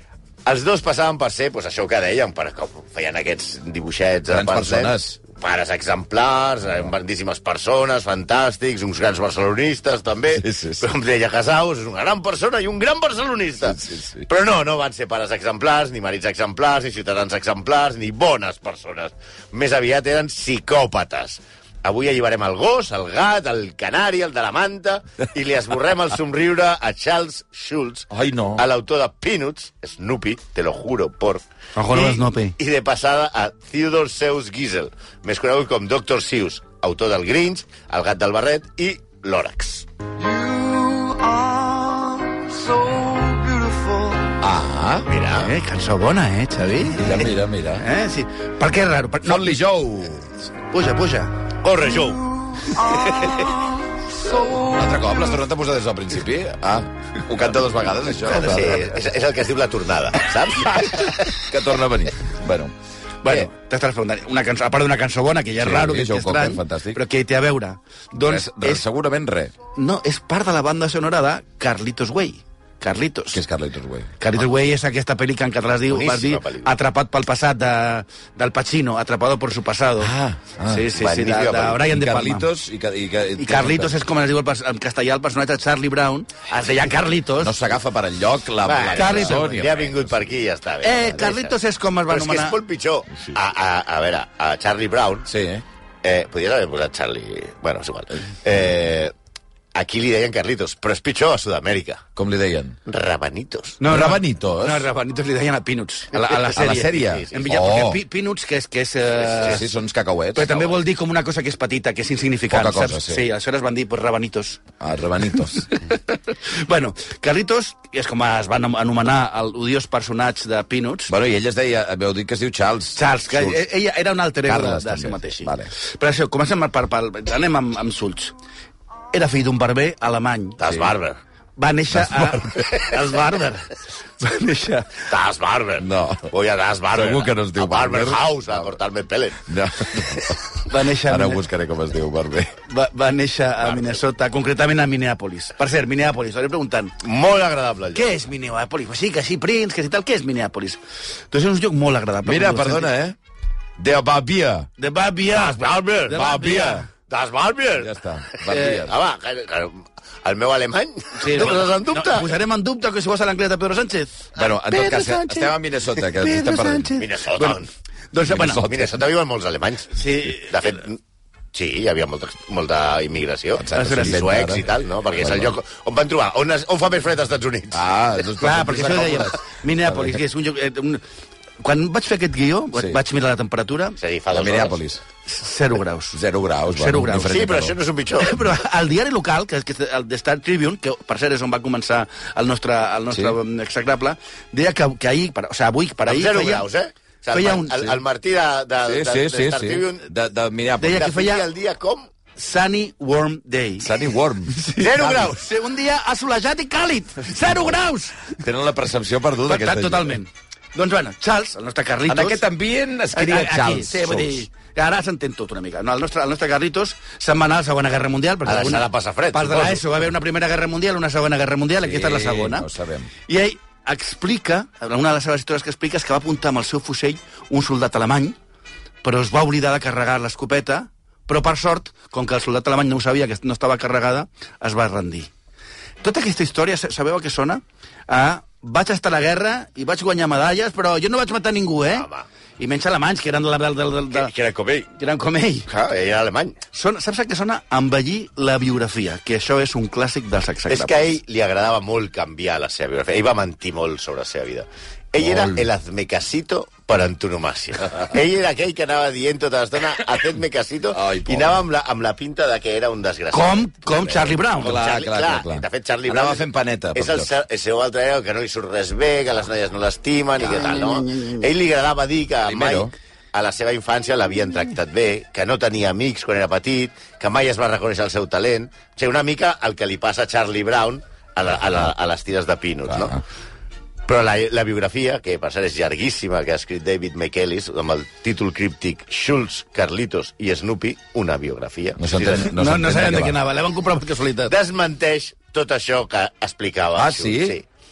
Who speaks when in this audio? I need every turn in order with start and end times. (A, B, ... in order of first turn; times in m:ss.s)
0:00.4-0:39.9 A
0:04.3-0:05.2 B
0:10.3-0:10.8 B
0:13.6-0:14.3 B
0:28.1-0:28.6 B
0:31.8-0:32.6 C
0:40.2-0:44.4 C
0:44.4-0:45.1 B
0:45.1-0:45.5 A
0:45.3-0:49.5 C
0:47.0-0:47.8 B
0:49.2-0:50.3 B
0:50.7-0:51.4 C
0:51.6-0:53.6 A
0:52.6-0:54.6 C
0:54.4-0:59.0 B
0:58.3-0:58.8 C
0:58.4-1:01.4 A
1:01.3-1:02.7 B
1:03.2-1:08.8 C
1:05.6-1:07.0 B
1:08.2-1:09.5 B
1:09.7-1:13.4 C
1:13.3-1:14.1 B
1:14.2-1:20.1 C
1:15.9-1:16.7 A
1:20.0-1:20.9 B
1:20.7-1:22.5 C
1:20.9-1:21.8 A
1:21.8-1:24.0 B
1:23.4-1:27.6 C
1:27.4-1:30.4 B
1:28.6-1:31.5 A
1:29.0-1:29.6 C
1:30.8-1:32.6 C
1:32.1-1:35.3 A
1:35.2-1:35.6 B
1:36.0-1:39.1 A
1:39.7-1:42.0 A
1:42.2-1:42.8 B
1:42.8-1:43.8 A
1:43.8-1:49.6 C
1:43.9-1:44.9 B
1:46.3-1:47.6 A
1:46.5-1:48.0 B
1:49.2-1:49.6 A
1:49.4-1:50.7 B
1:50.3-1:54.6 C
1:52.5-1:53.2 B
1:54.8-1:55.7 B
1:55.5-2:01.1 C
2:01.1-2:03.6 B
2:03.0-2:08.3 C
2:04.4-2:05.7 B
2:09.1-2:10.6 C
2:10.6-2:11.2 A
2:10.6-2:10.9 B
2:11.6-2:15.1 C
2:11.9-2:12.7 B
2:15.1-2:19.4 A
2:15.8-2:16.3 B
2:16.9-2:18.7 B
2:19.4-2:20.4 B
2:20.6-2:21.4 C
2:21.0-2:22.6 B
2:22.6-2:27.0 C
2:23.6-2:24.0 A
2:27.0-2:28.1 A
2:27.9-2:30.8 C
2:31.3-2:32.9 C
2:32.2-2:33.2 B
2:33.8-2:34.7 B
2:34.8-2:36.9 C
2:35.3-2:36.3 A
2:36.1-2:36.8 B
2:37.1-2:42.3 A
2:37.8-2:38.9 B
2:38.5-2:38.8 C
2:41.2-2:48.6 C
2:44.4-2:46.9 B
2:47.0-2:47.7 A
2:48.2-2:49.0 B
2:48.6-2:51.0 A
2:49.9-2:50.8 C
2:51.5-2:57.8 A
2:53.6-2:55.5 B
2:53.7-2:54.2 C
2:57.7-3:00.2 B
2:58.4-3:01.0 C
3:01.6-3:04.0 C
3:02.7-3:03.0 B
3:04.0-3:04.8 A
3:04.3-3:05.0 B
3:05.2-3:06.2 C
3:06.1-3:07.8 B
3:06.7-3:07.4 C
3:07.2-3:08.4 A
3:08.2-3:16.6 C
3:13.1-3:13.4 B
3:16.1-3:20.0 A
3:17.3-3:17.9 C
3:18.8-3:21.1 B
3:20.8-3:21.4 C
3:21.0-3:22.1 A
3:22.4-3:23.9 C
3:23.8-3:24.5 B
3:24.5-3:28.3 C
3:24.8-3:25.5 A
3:28.3-3:30.2 B
3:29.5-3:32.4 C
3:32.1-3:34.4 B
3:33.1-3:42.7 C
3:38.4-3:39.8 A
3:41.8-3:43.1 B
3:43.2-3:48.4 C
3:49.0-3:55.3 C
3:56.0-4:02.1 C
4:01.9-4:02.3 A
4:02.6-4:04.3 C
4:04.1-4:04.9 A
4:04.9-4:05.7 C
4:05.7-4:06.6 A
4:06.7-4:11.1 C
4:10.7-4:43.2 A
4:15.2-4:15.7 B
4:20.9-4:21.6 B
4:23.3-4:24.8 C
4:24.6-4:27.3 B
4:32.4-4:32.9 B
4:42.9-4:43.2 B
4:44.1-4:52.6 A
4:52.0-4:53.4 B
4:52.3-4:54.5 C
4:54.5-4:57.6 A
4:57.0-4:57.6 B